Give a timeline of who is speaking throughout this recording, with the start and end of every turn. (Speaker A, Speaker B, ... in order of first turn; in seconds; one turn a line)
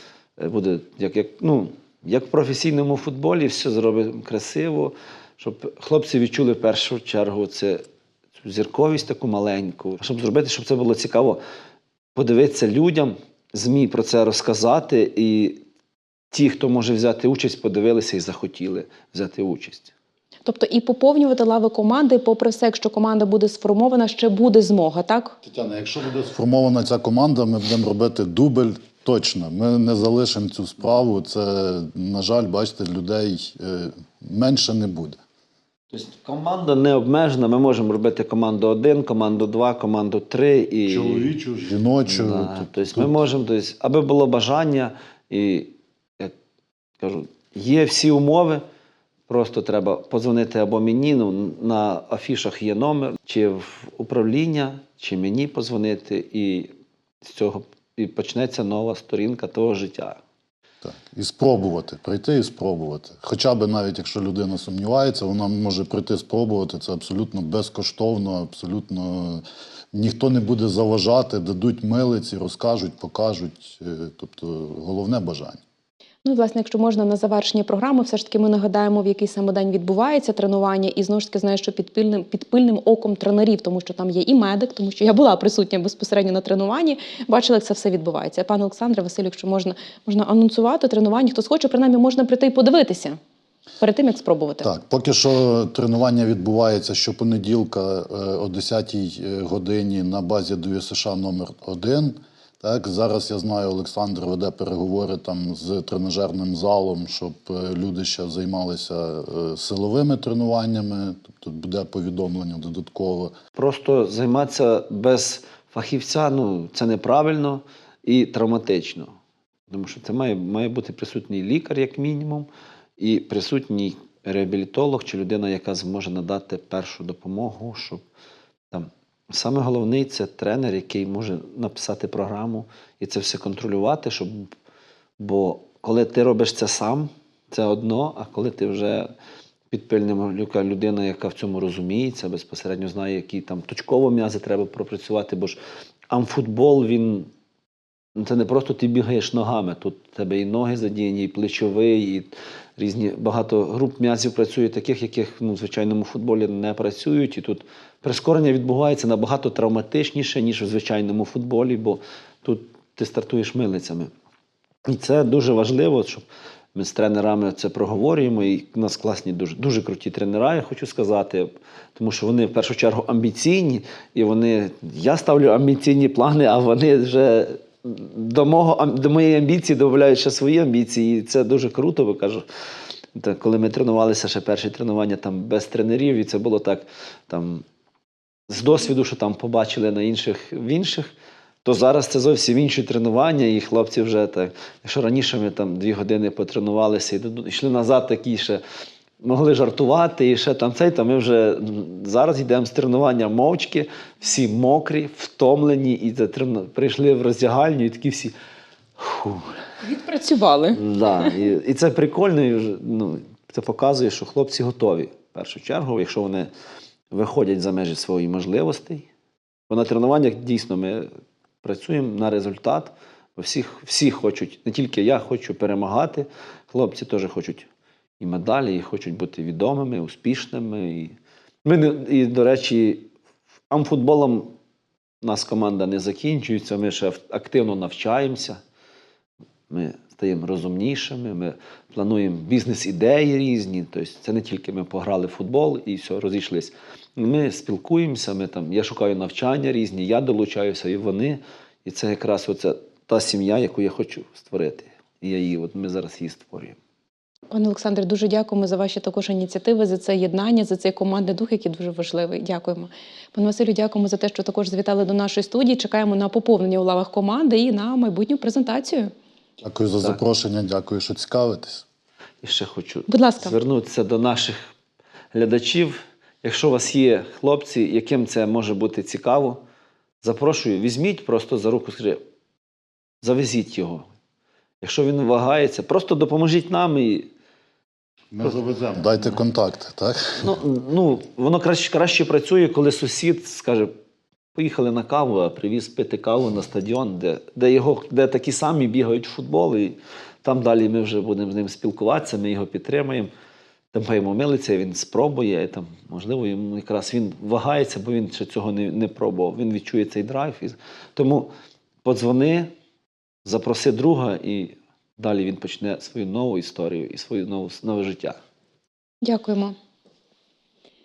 Speaker A: 0.4-7.8
Speaker A: 8.4-11.4
Speaker A: 12.1-15.6
Speaker A: 16.3-19.9
Speaker B: 20.4-25.4
Speaker C: 25.4-35.2
Speaker A: 35.9-41.3
Speaker C: 40.9-43.2
Speaker A: 42.1-46.3
Speaker A: 47.0-48.6
Speaker A: 49.3-56.7
Speaker A: 57.2-60.2
Speaker C: 60.8-75.6
Speaker B: 76.2-93.2
Speaker B: 93.8-94.7
Speaker C: 94.6-113.3
Speaker A: 113.5-119.1
Speaker A: 119.7-128.0
Speaker A: 128.7-134.5
Speaker A: 135.2-139.1
Speaker A: 139.7-147.3
Speaker A: 148.1-164.1
Speaker A: 164.8-182.4
Speaker A: 183.1-187.6
Speaker A: 188.5-191.1
Speaker A: 191.6-198.6
Speaker A: 199.2-208.3
Speaker A: 209.0-209.6
Speaker B: 209.8-211.3
Speaker A: 210.7-216.5
Speaker A: 217.1-219.1
Speaker A: 219.7-221.1
Speaker A: 221.6-227.7
Speaker A: 228.2-233.1
Speaker A: 233.7-234.5
Speaker A: 235.2-238.6
Speaker A: 239.7-256.8
Speaker B: 257.5-269.1
Speaker C: 269.6-271.9
Speaker A: 272.4-274.7
Speaker B: 273.1-273.6
Speaker A: 275.3-279.6
Speaker A: 280.2-282.2
Speaker A: 283.2-284.1
Speaker A: 284.8-287.3
Speaker C: 288.3-290.6
Speaker A: 290.4-293.9
Speaker A: 294.6-303.3
Speaker A: 303.9-311.5
Speaker A: 312.0-312.7
Speaker A: 313.4-318.4
Speaker B: 319.2-319.7